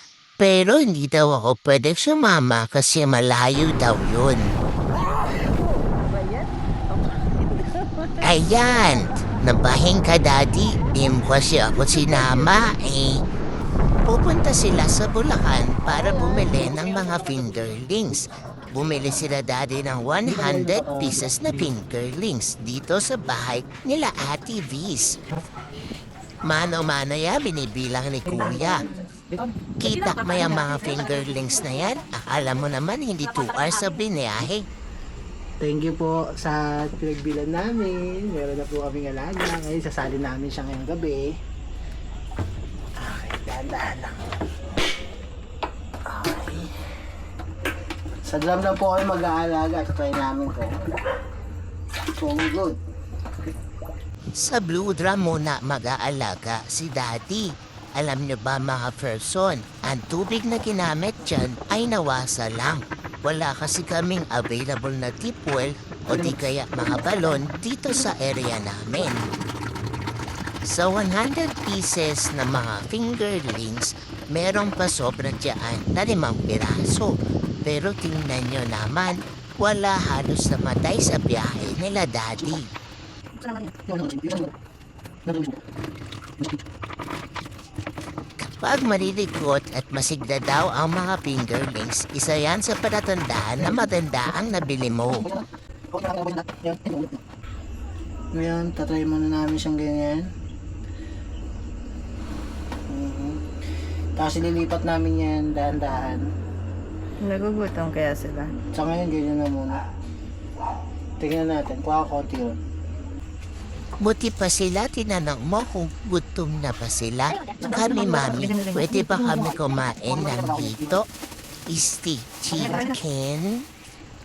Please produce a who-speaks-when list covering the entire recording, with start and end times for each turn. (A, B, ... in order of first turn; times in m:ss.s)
0:00.4-0:04.5 A
0:05.2-0:08.1 B
0:08.2-0:13.2 A
0:14.0-0:25.2 A
0:20.3-0:21.3 C
0:26.4-0:28.9 A
0:29.8-0:34.6 A
0:35.6-0:41.4 C
0:43.0-0:44.2 C
0:46.1-0:46.7 C
0:48.2-0:50.7 C
0:52.2-0:52.8 C
0:54.4-1:09.2 A
1:10.6-1:22.7 A
1:23.7-1:24.5 C
1:28.4-1:35.3 A
1:35.9-1:37.1 C
1:38.3-1:40.3 C
1:42.9-1:43.4 C
1:44.2-1:46.2 C
1:47.2-1:48.6 B
1:48.7-1:49.8 C
1:51.2-1:52.6 C
1:54.0-2:01.1 A
2:01.7-2:03.6 A